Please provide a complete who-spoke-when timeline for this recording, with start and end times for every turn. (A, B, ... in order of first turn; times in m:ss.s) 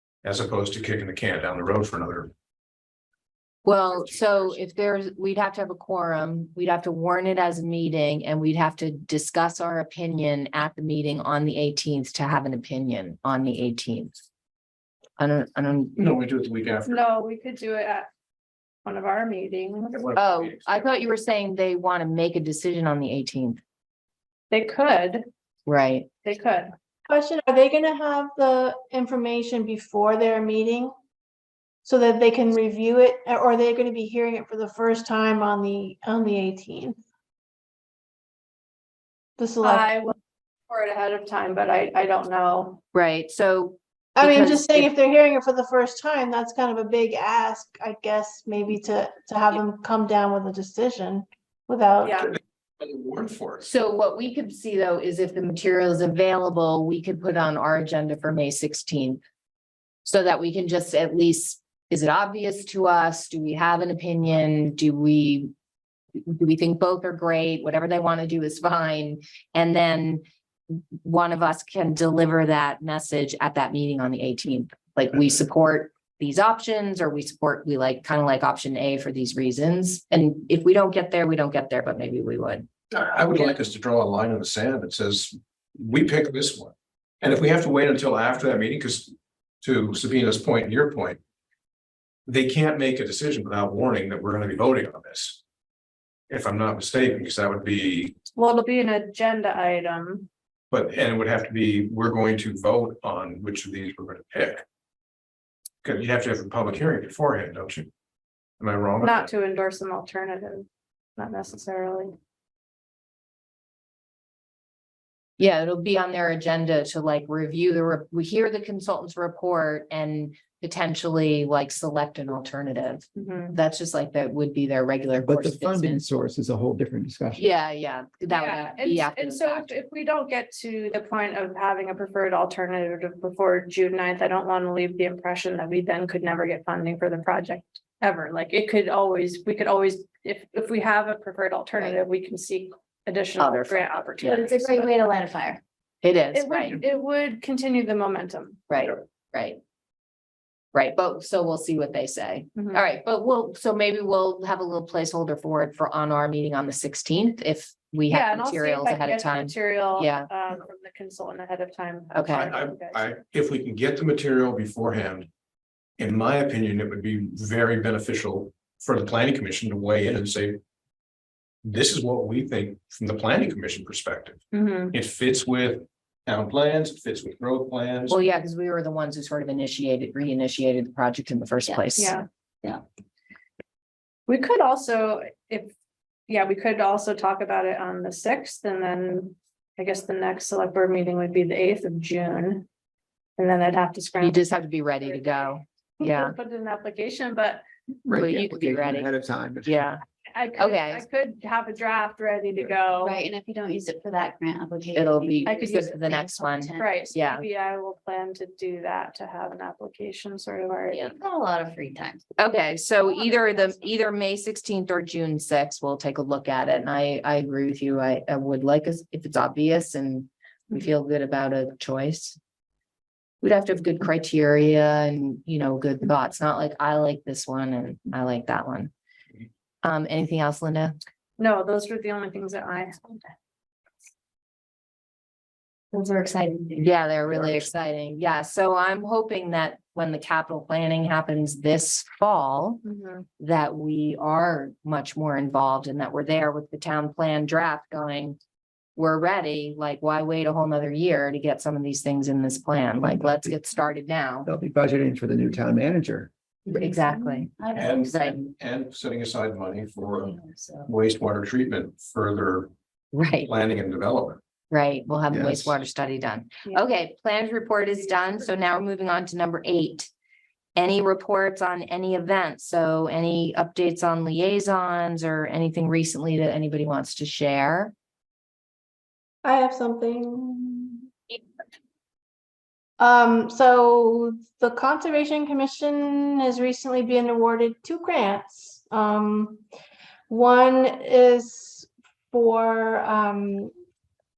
0:00.2-0:02.3 A
0:03.6-0:14.2 B
0:15.2-0:16.0 B
0:16.0-0:17.0 A
0:16.9-0:18.1 C
0:18.8-0:20.1 C
0:19.9-0:21.0 A
0:20.1-0:23.6 B
0:24.5-0:25.3 C
0:25.7-0:26.1 B
0:26.2-0:26.7 C
0:27.1-0:30.9 D
0:31.8-0:37.0 D
0:39.4-0:39.9 D
0:39.6-0:40.2 C
0:40.7-0:42.8 C
0:42.9-0:44.9 B
0:44.2-0:52.3 D
0:52.0-0:52.3 C
0:52.8-0:53.6 A
0:53.6-0:59.2 B
1:00.0-1:05.5 B
1:06.2-1:10.2 B
1:11.0-1:22.7 B
1:22.9-1:31.2 A
1:32.3-1:35.4 A
1:36.3-1:38.2 A
1:38.4-1:40.3 C
1:40.7-1:44.6 A
1:45.8-1:47.9 A
1:48.6-1:49.3 A
1:49.0-1:52.1 C
1:55.4-2:06.0 B
2:03.2-2:03.5 C
2:05.2-2:07.5 E
2:07.4-2:09.7 B
2:08.3-2:24.9 C
2:23.4-2:24.5 B
2:24.2-2:25.6 F
2:26.0-2:26.8 B
2:26.3-2:28.6 C
2:28.7-2:29.6 B
2:30.7-2:40.3 B
2:32.6-2:32.8 C
2:38.1-2:43.1 C
2:42.1-2:42.5 B
2:42.3-2:45.3 A
2:46.0-2:50.6 A
2:51.6-2:54.4 A
2:54.5-2:54.9 C
2:54.9-2:58.2 A
2:58.1-3:02.2 B
3:02.0-3:02.3 C
3:04.3-3:05.7 C
3:06.3-3:12.6 C
3:13.4-3:14.5 C
3:14.2-3:16.3 B
3:15.0-3:17.6 C
3:18.0-3:19.8 E
3:18.1-3:19.1 B
3:19.6-3:20.0 B
3:20.2-3:23.2 C
3:20.6-3:21.0 B
3:22.9-3:27.1 F
3:24.9-3:27.4 B
3:25.4-3:26.2 C
3:26.8-3:31.1 C
3:30.9-3:32.2 F
3:32.4-3:42.4 B
3:43.4-3:48.9 B
3:49.8-3:51.0 B
3:51.4-3:53.3 C
3:55.9-3:56.9 F
3:56.8-4:02.8 B
4:02.9-4:03.2 C
4:03.4-4:08.4 B
4:09.0-4:14.5 B
4:13.0-4:13.5 E
4:14.4-4:16.3 E
4:16.6-4:18.3 F
4:16.7-4:18.3 B
4:17.7-4:22.7 A
4:20.0-4:20.9 F
4:23.1-4:23.5 B
4:23.4-4:24.4 A
4:24.7-4:30.1 B
4:25.3-4:25.8 E
4:28.0-4:28.4 C
4:30.8-4:37.9 B
4:39.4-4:41.1 D
4:43.0-4:49.6 D
4:50.3-4:53.7 D